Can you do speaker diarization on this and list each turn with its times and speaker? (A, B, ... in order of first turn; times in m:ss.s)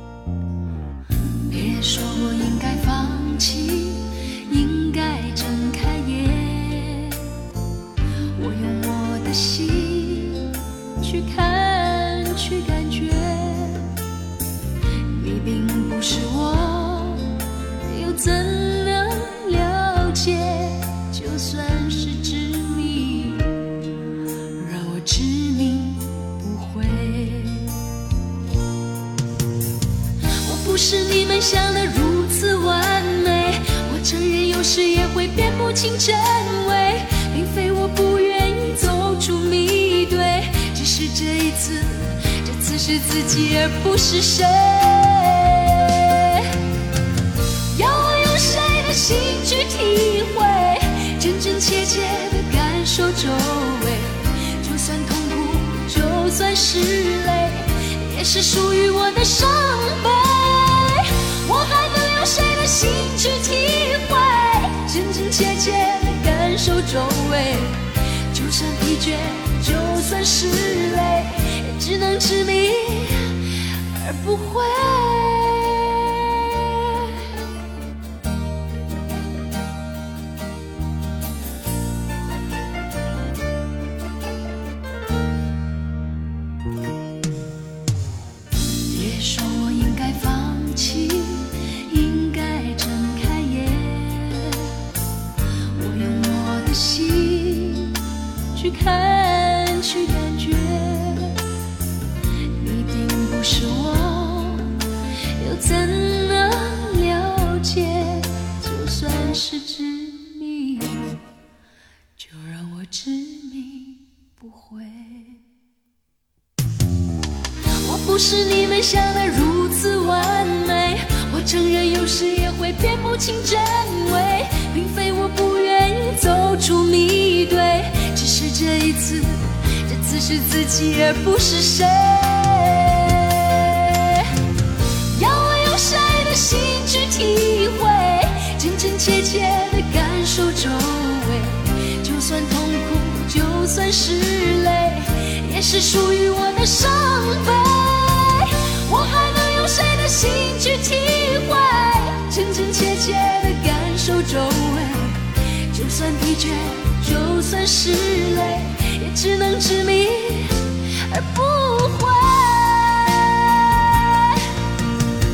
0:01.5-0:07.3 A
0:08.4-0:13.9 A
0:15.1-0:23.8 A
0:24.6-0:27.8 A
0:30.4-0:46.6 A
0:47.7-1:17.3 A
1:28.9-1:34.7 A
1:35.7-1:38.0 A
1:38.5-1:41.4 A
1:42.6-1:44.8 A
1:45.4-1:51.2 A
1:52.2-1:55.4 A
1:57.8-2:14.3 A
2:15.1-2:44.5 A